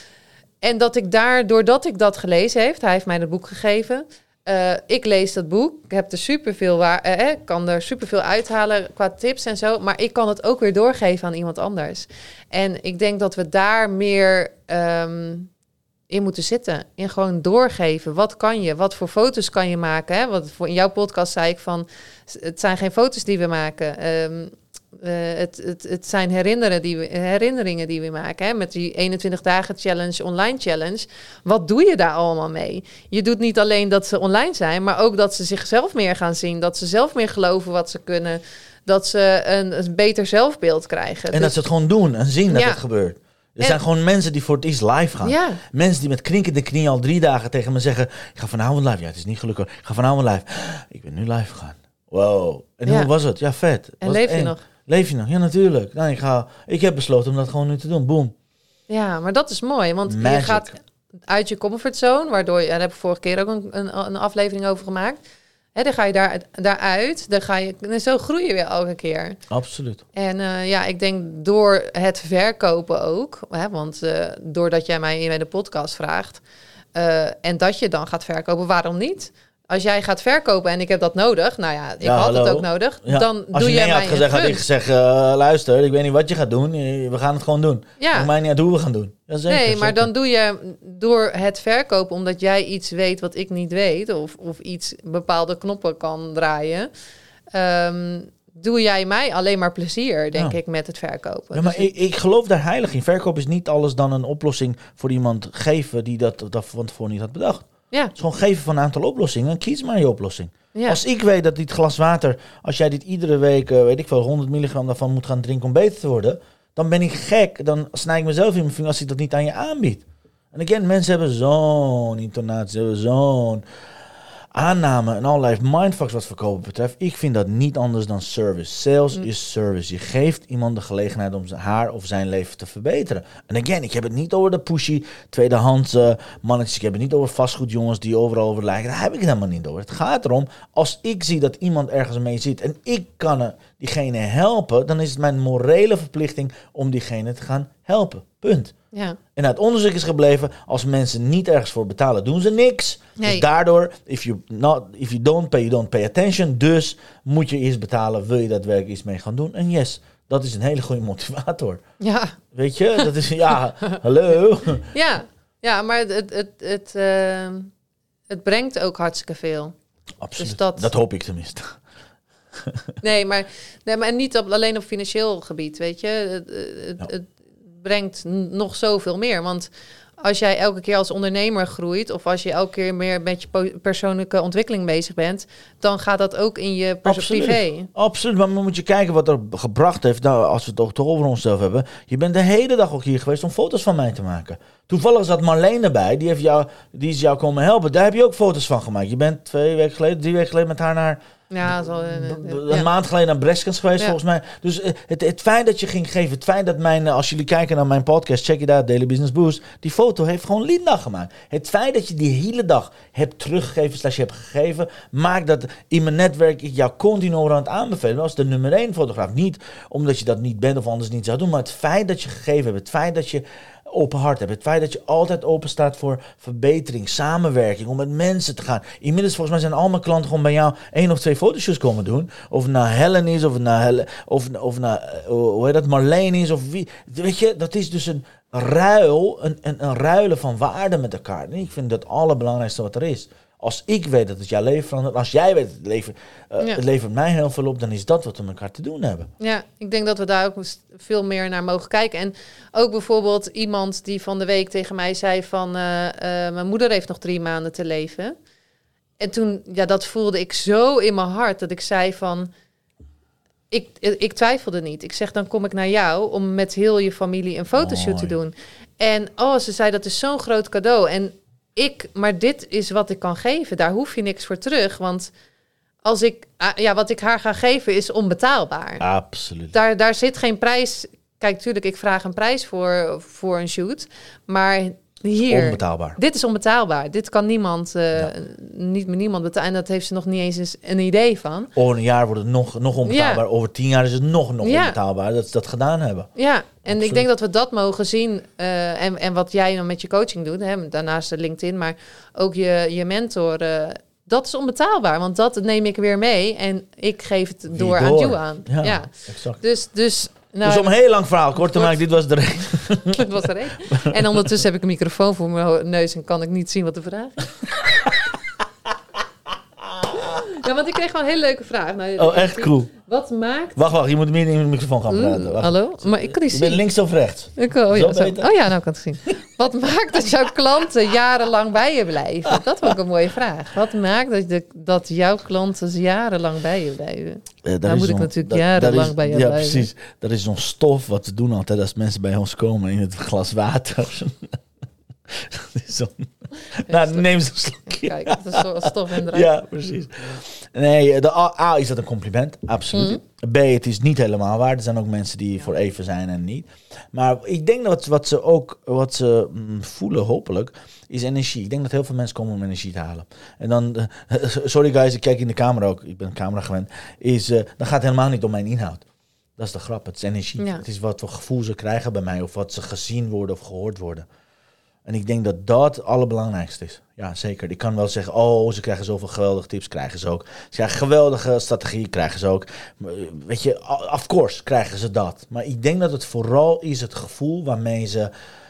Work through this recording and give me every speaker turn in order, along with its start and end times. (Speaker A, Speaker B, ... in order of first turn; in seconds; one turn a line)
Speaker A: 0.6-15.5
Speaker A: 16.1-41.6
Speaker B: 41.3-58.3
Speaker A: 42.5-42.8
Speaker A: 45.2-45.6
Speaker A: 54.0-54.6
Speaker A: 58.9-60.8
Speaker B: 60.1-60.7
Speaker A: 61.3-65.2
Speaker A: 65.7-69.4
Speaker B: 69.5-70.0
Speaker A: 70.1-76.4
Speaker A: 76.9-84.6
Speaker B: 82.0-90.1
Speaker A: 88.0-88.3
Speaker A: 89.5-96.9
Speaker A: 97.5-101.9
Speaker B: 101.5-123.6
Speaker B: 124.5-148.7
Speaker A: 148.9-149.2
Speaker B: 149.3-161.8
Speaker A: 153.2-153.4
Speaker A: 162.0-162.4
Speaker B: 162.5-164.8
Speaker A: 164.9-167.7
Speaker A: 168.3-169.7
Speaker B: 170.2-171.8
Speaker A: 170.4-170.9
Speaker B: 172.6-172.8
Speaker A: 173.0-187.9
Speaker B: 187.0-249.3
Speaker A: 201.5-202.9
Speaker A: 249.4-258.3
Speaker A: 259.2-262.5
Speaker A: 263.7-275.3
Speaker B: 267.7-268.4
Speaker A: 276.0-279.0
Speaker B: 279.0-279.7
Speaker A: 279.7-291.7
Speaker B: 285.5-286.2
Speaker B: 291.7-296.3
Speaker A: 293.0-293.4
Speaker A: 294.6-295.0
Speaker A: 296.4-310.9
Speaker B: 296.9-297.2
Speaker B: 307.7-309.6
Speaker B: 310.6-314.6
Speaker A: 311.6-312.0
Speaker A: 312.9-317.6
Speaker B: 319.9-320.5
Speaker A: 320.3-323.8
Speaker B: 322.2-322.9
Speaker B: 323.8-328.6
Speaker A: 325.1-326.8
Speaker A: 327.6-339.9
Speaker B: 332.5-332.9
Speaker B: 337.6-344.6
Speaker B: 345.3-369.0
Speaker A: 346.9-347.2
Speaker A: 347.9-349.5
Speaker A: 352.9-353.2
Speaker B: 369.6-374.3
Speaker A: 370.6-370.8
Speaker B: 375.1-388.3